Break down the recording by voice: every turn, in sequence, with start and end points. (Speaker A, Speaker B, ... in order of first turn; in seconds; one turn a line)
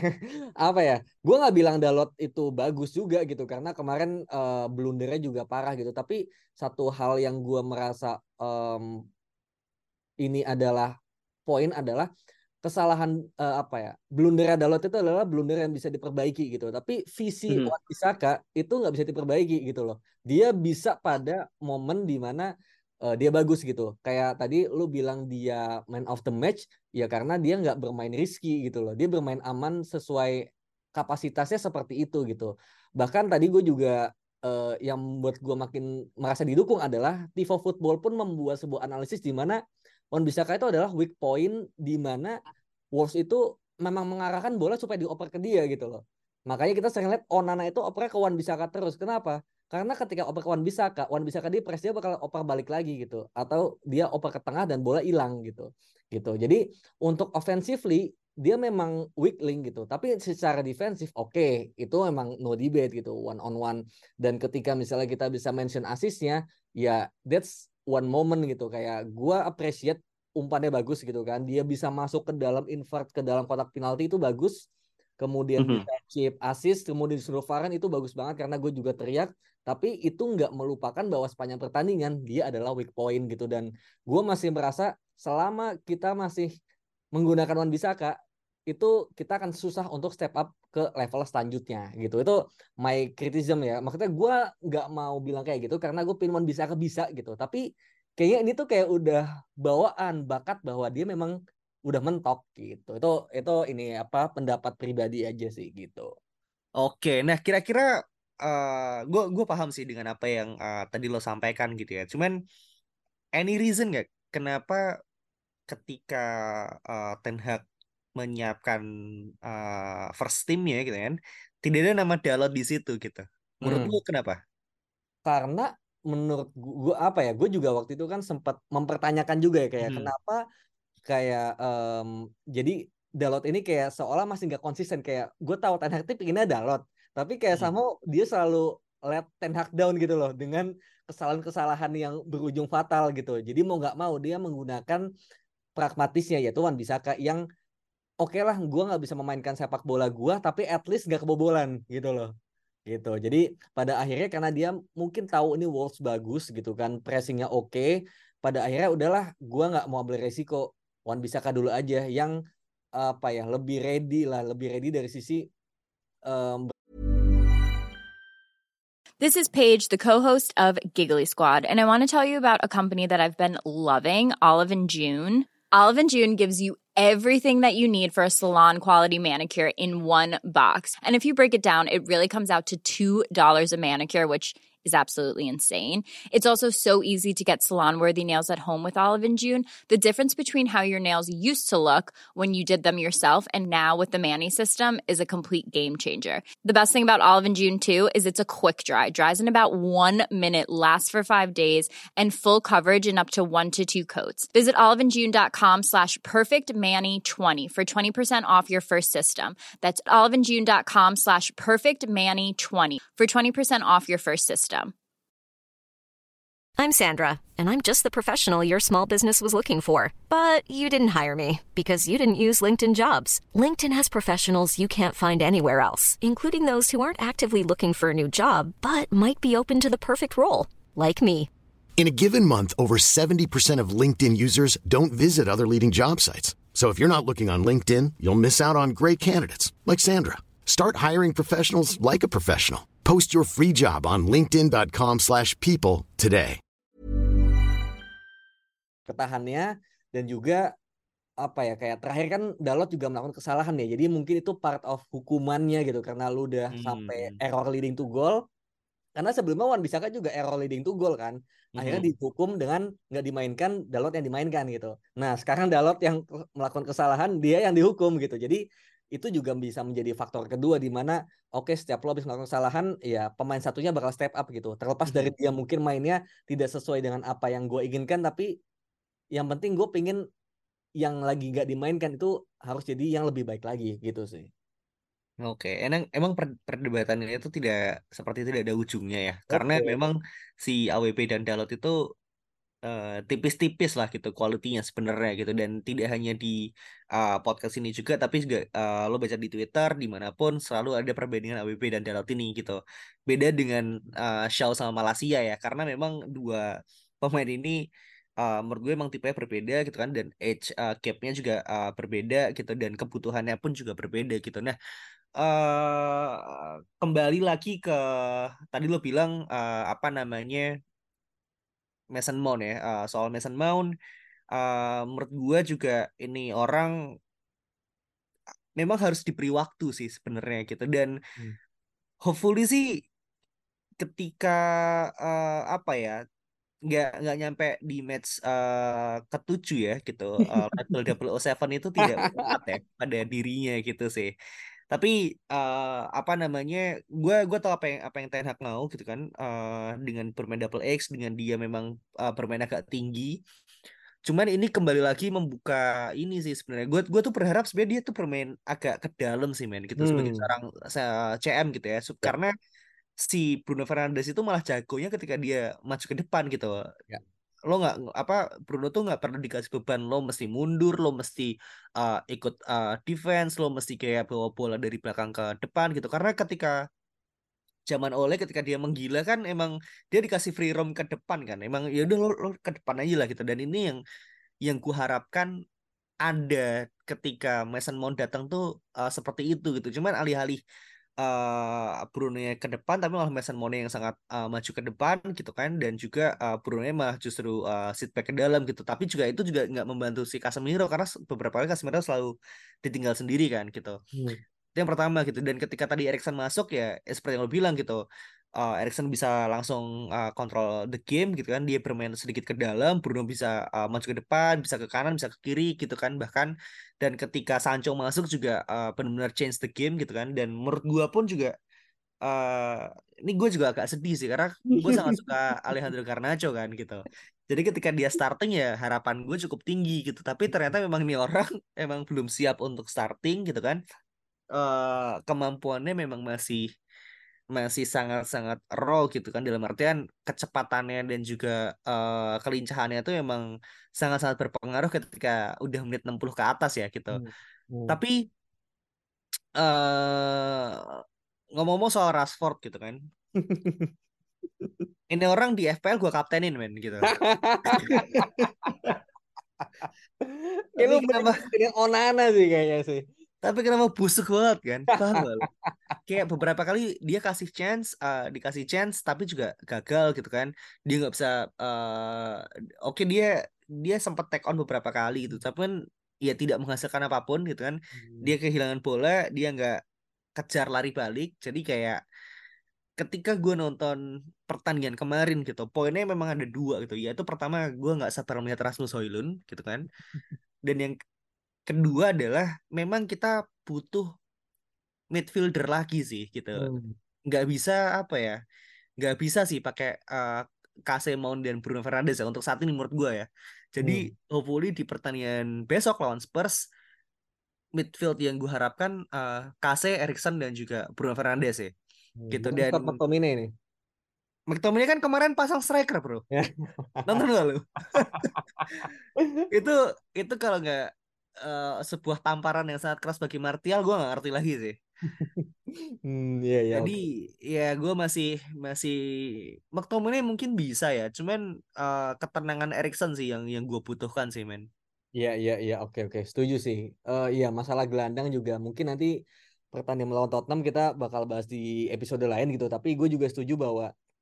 Speaker A: 0.6-8.8
Speaker A: 10.2-10.9
Speaker A: 11.5-12.1
Speaker A: 12.6-22.5
Speaker A: 23.1-30.4
Speaker A: 30.9-39.6
Speaker A: 40.1-42.3
Speaker A: 43.0-74.6
Speaker A: 75.2-86.5
Speaker B: 75.6-75.8
Speaker A: 87.1-88.1
Speaker A: 88.7-97.6
Speaker A: 98.2-101.3
Speaker A: 101.9-106.1
Speaker B: 106.8-107.9
Speaker B: 108.4-112.3
Speaker B: 113.3-114.8
Speaker B: 115.7-116.3
Speaker B: 116.9-117.6
Speaker B: 118.2-118.8
Speaker B: 119.5-124.4
Speaker A: 123.6-123.9
Speaker A: 125.2-130.4
Speaker B: 129.8-130.1
Speaker A: 131.1-145.0
Speaker A: 145.8-147.4
Speaker A: 148.2-152.3
Speaker A: 152.9-157.9
Speaker A: 158.4-162.3
Speaker A: 163.0-165.4
Speaker A: 166.3-166.7
Speaker C: 169.2-214.9
Speaker D: 216.8-231.5
Speaker E: 232.0-246.6
Speaker A: 249.1-250.6
Speaker A: 251.4-258.4
Speaker B: 256.7-257.4
Speaker A: 259.2-268.6
Speaker B: 261.8-262.1
Speaker A: 269.1-278.5
Speaker A: 279.3-280.2
Speaker A: 281.0-284.5
Speaker B: 285.4-292.0
Speaker A: 289.5-289.9
Speaker B: 292.8-296.5
Speaker B: 297.1-306.6
Speaker B: 307.2-307.8
Speaker B: 308.4-314.7
Speaker B: 315.4-320.7
Speaker B: 322.1-323.9
Speaker B: 324.5-326.9
Speaker B: 328.8-331.1
Speaker B: 332.2-333.0
Speaker B: 334.0-334.6
Speaker B: 335.2-336.1
Speaker B: 336.9-344.3
Speaker A: 340.4-340.9
Speaker A: 342.0-342.5
Speaker B: 344.9-353.4
Speaker B: 354.2-362.5
Speaker A: 360.0-360.5
Speaker B: 363.2-366.8
Speaker B: 367.7-376.8
Speaker B: 377.9-384.0
Speaker B: 384.6-385.5
Speaker B: 386.2-390.6
Speaker B: 391.2-402.3
Speaker B: 402.8-404.0
Speaker A: 404.1-404.4
Speaker B: 404.7-408.0
Speaker B: 408.6-421.5
Speaker B: 422.2-433.8
Speaker A: 424.7-425.9
Speaker B: 434.5-436.7
Speaker B: 437.5-447.2
Speaker A: 447.1-448.0
Speaker B: 447.9-448.2
Speaker B: 449.6-451.0
Speaker B: 451.5-453.0
Speaker A: 453.4-453.9
Speaker B: 455.1-457.1
Speaker A: 457.1-458.9
Speaker B: 457.7-458.9
Speaker A: 459.8-463.0
Speaker B: 460.8-461.4
Speaker B: 463.4-465.5
Speaker A: 465.6-465.9
Speaker B: 466.1-475.7
Speaker B: 476.2-479.8
Speaker A: 477.9-478.3
Speaker B: 480.4-482.0
Speaker B: 483.0-489.9
Speaker B: 490.6-490.9
Speaker B: 491.7-494.1
Speaker B: 495.1-496.7
Speaker A: 496.6-496.9
Speaker B: 497.3-498.4
Speaker B: 499.0-506.6
Speaker A: 503.8-504.1
Speaker B: 507.7-511.7
Speaker A: 512.2-513.5
Speaker B: 512.3-513.0
Speaker B: 514.5-516.2
Speaker A: 516.4-517.2
Speaker B: 517.1-518.3
Speaker A: 518.0-519.5
Speaker B: 519.5-524.8
Speaker A: 525.1-525.5
Speaker A: 526.0-526.9
Speaker B: 526.8-534.7
Speaker A: 535.2-539.1
Speaker A: 539.7-543.9